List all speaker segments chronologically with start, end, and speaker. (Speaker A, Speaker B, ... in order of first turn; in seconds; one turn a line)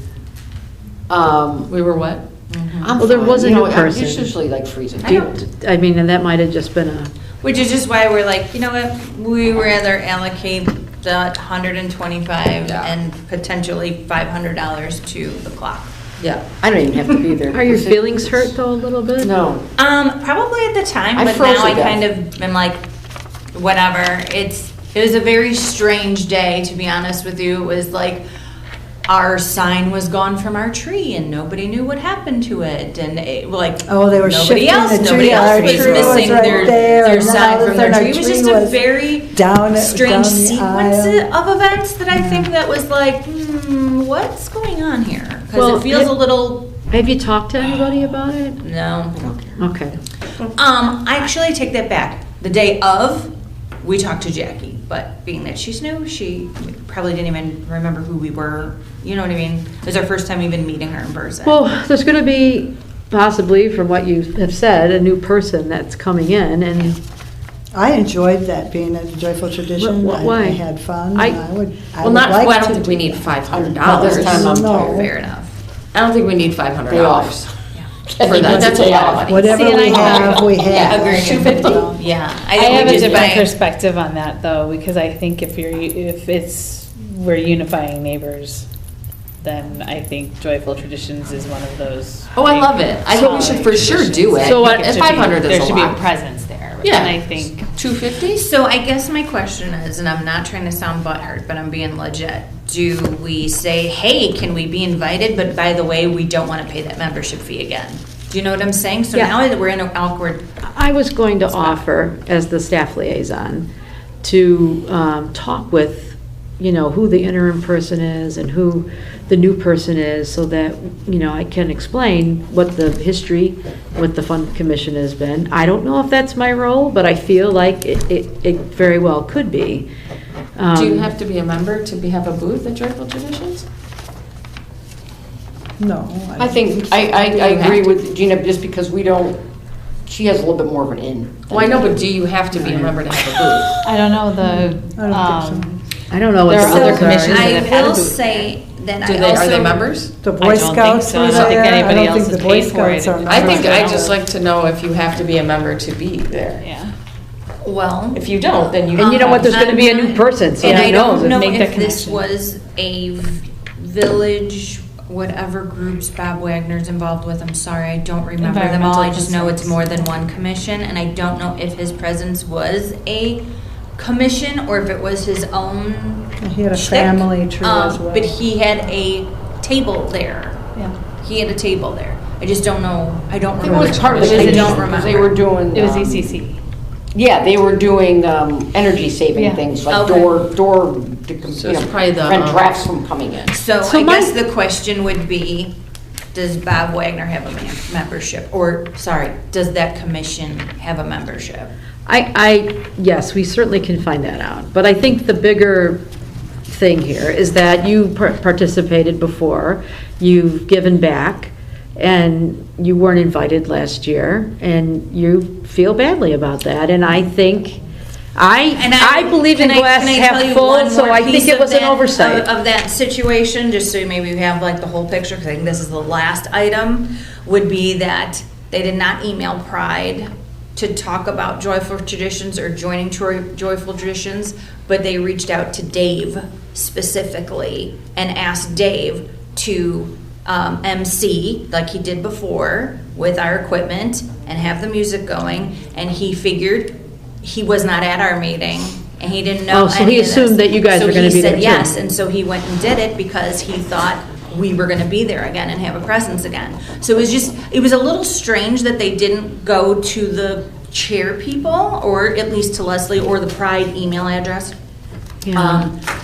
Speaker A: 1.1-1.7
Speaker B: 1.7-2.3
Speaker C: 2.5-3.0
Speaker A: 2.8-5.2
Speaker D: 3.0-4.3
Speaker C: 5.0-5.3
Speaker D: 5.0-7.1
Speaker C: 7.4-15.9
Speaker B: 12.6-12.9
Speaker A: 16.2-18.5
Speaker D: 17.5-19.3
Speaker A: 19.2-19.6
Speaker C: 19.8-22.8
Speaker A: 21.1-22.0
Speaker C: 23.5-28.2
Speaker C: 29.1-46.7
Speaker E: 33.9-41.3
Speaker D: 35.7-36.2
Speaker F: 35.8-36.2
Speaker E: 42.1-42.5
Speaker D: 45.5-46.1
Speaker D: 46.9-48.6
Speaker C: 48.6-49.4
Speaker D: 49.6-50.0
Speaker C: 50.5-61.6
Speaker D: 61.4-67.0
Speaker E: 67.7-75.1
Speaker D: 69.8-70.6
Speaker B: 72.0-74.5
Speaker A: 73.7-75.1
Speaker C: 74.5-75.5
Speaker B: 75.9-77.5
Speaker A: 76.9-77.4
Speaker A: 78.1-79.5
Speaker B: 78.2-81.9
Speaker E: 78.3-82.1
Speaker C: 78.9-83.5
Speaker F: 79.5-80.6
Speaker F: 82.5-88.7
Speaker E: 82.7-83.0
Speaker B: 82.9-83.3
Speaker F: 89.4-97.8
Speaker B: 92.3-96.0
Speaker D: 94.4-95.1
Speaker B: 96.8-98.4
Speaker C: 98.2-110.4
Speaker D: 110.6-113.7
Speaker C: 111.5-111.8
Speaker D: 114.2-129.8
Speaker D: 130.6-131.1
Speaker B: 130.7-133.7
Speaker E: 135.8-137.6
Speaker A: 136.4-139.4
Speaker B: 137.0-137.9
Speaker A: 140.1-142.0
Speaker B: 141.5-143.8
Speaker D: 142.5-143.0
Speaker F: 143.8-145.8
Speaker E: 144.9-145.8
Speaker D: 146.1-147.7
Speaker F: 146.5-148.5
Speaker C: 146.5-149.9
Speaker B: 149.0-150.1
Speaker E: 150.2-154.2
Speaker F: 150.4-153.8
Speaker B: 151.3-151.7
Speaker B: 153.2-156.6
Speaker F: 156.6-156.9
Speaker C: 157.6-158.2
Speaker B: 158.1-159.6
Speaker C: 158.9-173.4
Speaker D: 158.9-161.4
Speaker F: 160.6-162.3
Speaker F: 168.4-169.9
Speaker C: 174.0-185.3
Speaker E: 176.4-178.3
Speaker A: 183.6-186.4
Speaker B: 184.0-184.6
Speaker F: 184.3-184.8
Speaker F: 185.7-186.6
Speaker A: 187.1-193.5
Speaker F: 189.3-189.7
Speaker C: 189.9-190.3
Speaker B: 191.5-192.7
Speaker C: 193.5-195.7
Speaker D: 193.8-194.3
Speaker C: 196.3-201.7
Speaker D: 202.1-206.0
Speaker D: 206.7-217.8
Speaker D: 218.3-222.5
Speaker C: 218.8-264.7
Speaker D: 249.7-252.0
Speaker D: 265.4-265.9
Speaker C: 265.5-266.0